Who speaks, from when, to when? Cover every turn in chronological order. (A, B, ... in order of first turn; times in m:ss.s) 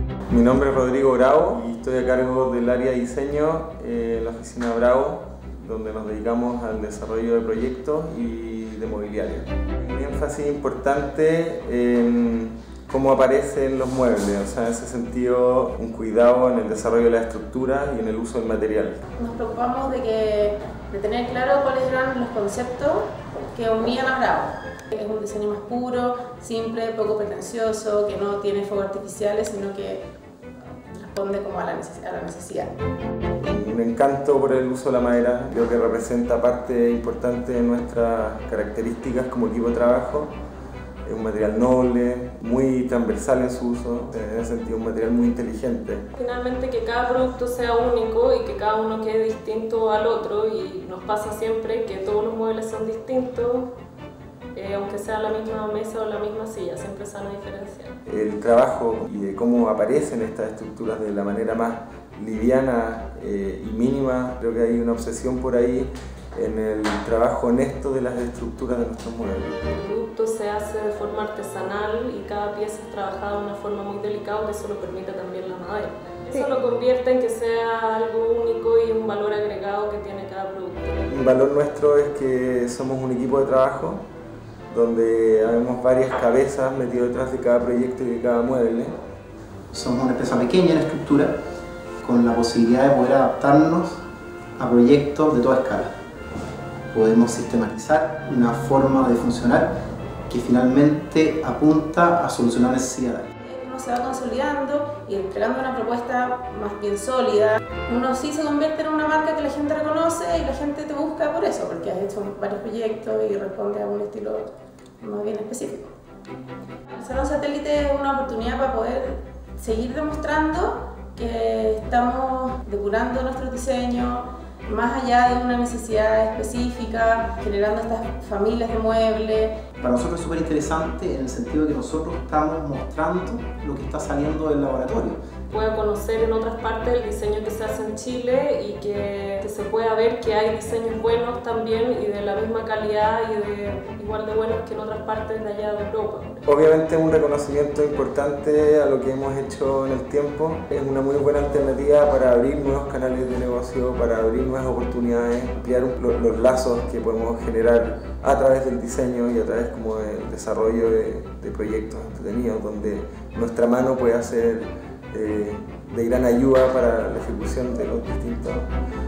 0:00.3-0:19.0 A
0:19.2-0:30.0 B
0:30.9-0:32.7 B
0:33.4-0:40.3 A
0:41.0-0:46.1 A
0:46.2-0:53.7 C
0:54.5-0:57.9 C
0:58.0-1:09.6 A
1:09.7-1:21.0 C
1:21.1-1:24.0 A
1:24.7-1:28.9 A
1:29.7-1:31.3 D
1:32.0-1:34.0 D
1:34.6-1:35.9 D
1:36.9-1:39.7 D
1:40.3-1:43.3 D
1:43.4-1:54.5 B
1:55.0-1:55.9 B
1:56.9-2:09.6 B
2:09.8-2:15.2 D
2:15.5-2:26.4 C
2:26.4-2:48.7 A